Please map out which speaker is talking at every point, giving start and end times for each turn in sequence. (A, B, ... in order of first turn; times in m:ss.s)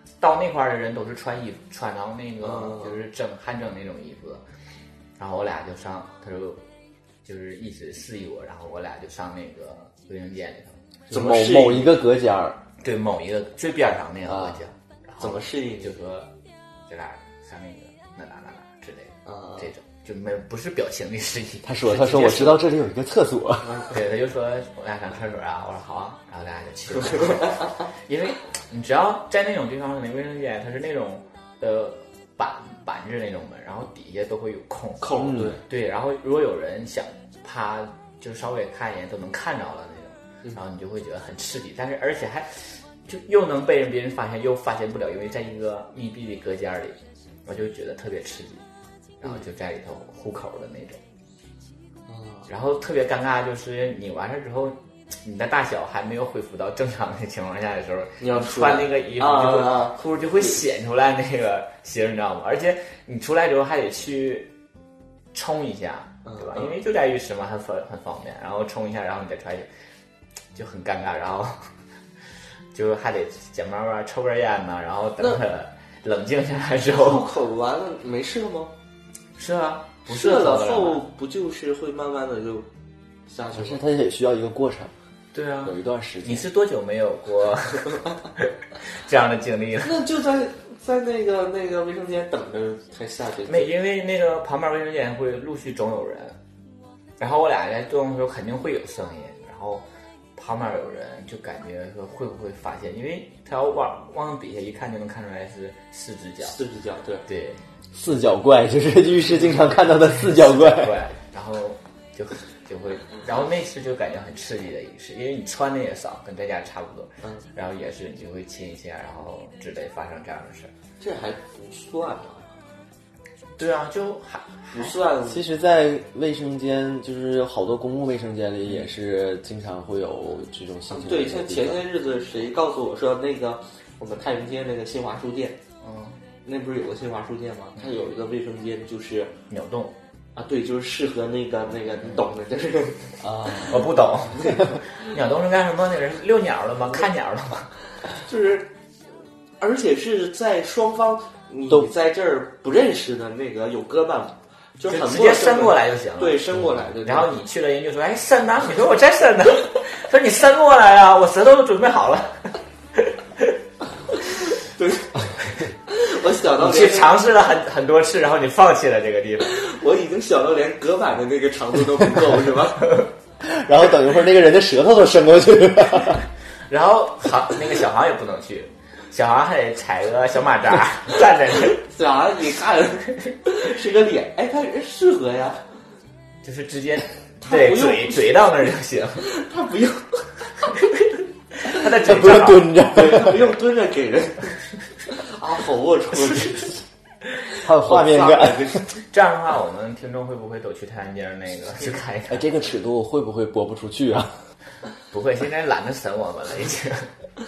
0:00.2-0:04.4 A
0:02.4-0:02.9 B
0:05.2-0:06.6 A
0:07.2-0:10.8 A
0:11.1-0:12.0 B
0:11.1-0:12.6 C
0:12.8-0:16.3 A
0:14.3-0:14.6 C
0:15.2-0:16.0 B
0:16.9-0:22.6 A
0:19.3-0:19.7 B
0:21.6-0:23.9 C
0:23.9-0:48.6 A
0:27.0-0:27.7 B
0:35.0-0:35.6 B
0:35.2-0:35.6 C
0:49.2-0:51.0 A
0:52.1-0:52.5 B
0:52.5-1:04.5 A
0:58.2-1:00.6 B
1:05.3-1:09.7 A
1:06.2-1:06.8 B
1:10.5-1:11.6 A
1:12.7-1:17.3 A
1:16.9-1:18.7 B
1:19.4-1:21.0 A
1:20.1-1:22.7 B
1:23.3-1:23.8 B
1:23.5-1:24.9 C
1:25.3-1:28.0 A
1:25.6-1:26.5 C
1:28.9-1:30.0 A
1:29.8-1:33.8 B
1:33.5-1:36.4 A
1:37.2-1:39.8 A
1:40.4-1:46.6 A
1:46.4-1:47.3 B
1:47.3-1:47.6 A
1:47.9-1:51.0 C
1:50.2-2:00.7 A
2:01.0-2:02.5 B
2:03.6-2:05.0 A
2:04.7-2:05.5 B
2:05.3-2:11.8 C
2:10.9-2:15.6 B
2:15.8-2:16.2 A
2:16.4-2:19.4 B
2:19.5-2:20.0 A
2:20.4-2:24.7 B
2:23.6-2:27.7 A
2:28.2-2:28.7 B
2:29.6-2:37.4 B
2:34.9-2:36.4 A
2:37.0-2:43.5 A
2:44.5-2:45.3 B
2:45.9-2:47.2 B
2:46.6-2:49.5 A
2:49.4-2:53.0 B
2:53.4-2:56.2 C
2:56.7-3:01.8 A
3:01.7-3:05.6 B
3:06.4-3:09.3 A
3:07.4-3:08.3 B
3:09.2-3:10.3 B
3:11.6-3:12.7 A
3:11.8-3:13.5 C
3:12.9-3:16.8 B
3:17.6-3:18.8 C
3:17.6-3:18.9 B
3:19.1-3:22.4 A
3:22.3-3:24.4 C
3:25.1-3:27.1 A